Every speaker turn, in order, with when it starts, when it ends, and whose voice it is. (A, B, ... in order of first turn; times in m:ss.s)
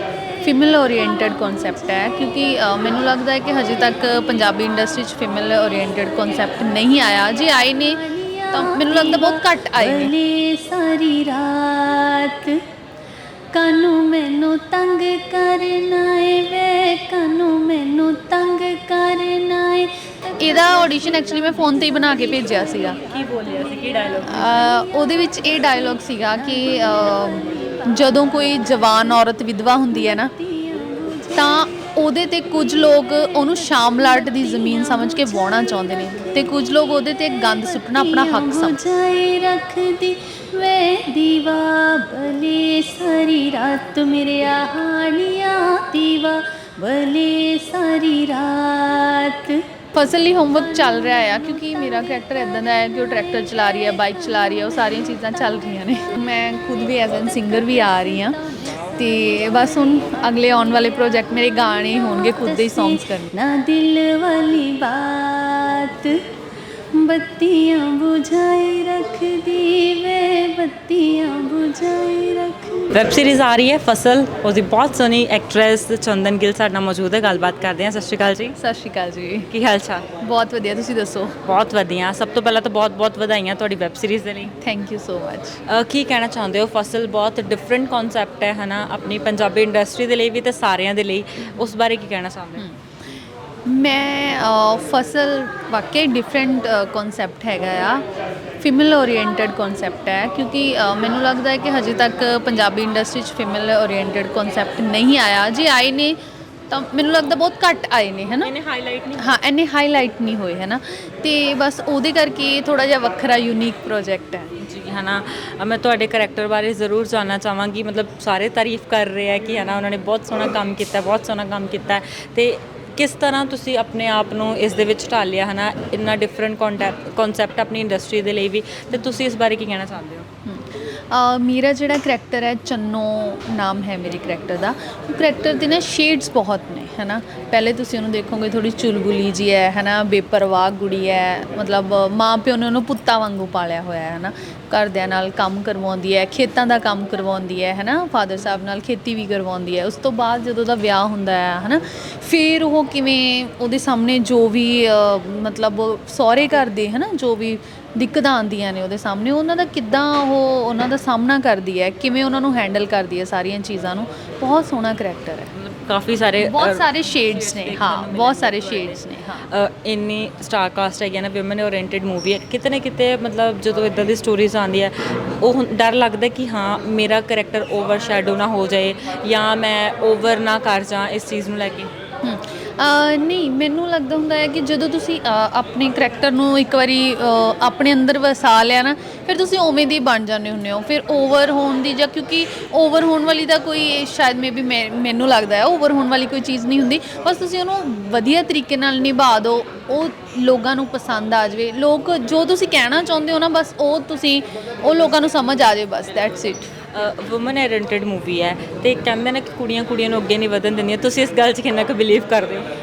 0:00.4-0:10.1 A
0:08.1-0:12.6 B
0:13.5-0:22.9 B
0:20.4-0:23.0 A
0:23.0-0:24.7 C
0:24.2-0:30.3 A
0:26.0-0:29.1 B
0:29.9-0:31.6 B
0:31.3-0:38.8 A
0:33.5-0:36.5 B
0:37.3-0:49.6 B
0:49.9-1:03.3 A
0:50.6-0:52.2 B
0:53.1-0:55.7 B
0:57.6-1:06.2 B
1:06.9-1:13.0 B
1:12.9-1:18.6 C
1:18.6-1:19.5 A
1:19.5-1:20.0 C
1:20.2-1:21.4 A
1:21.4-1:24.5 C
1:24.6-1:25.6 A
1:25.7-1:32.6 C
1:33.6-1:38.0 A
1:38.6-1:46.2 A
1:46.7-1:48.5 A
1:48.4-1:49.4 C
1:49.2-1:54.5 A
1:54.6-2:10.3 C
2:10.4-2:45.5 A
2:45.5-3:01.9 C
2:46.4-2:49.5 A
3:02.2-3:26.7 A
3:26.9-3:32.6 C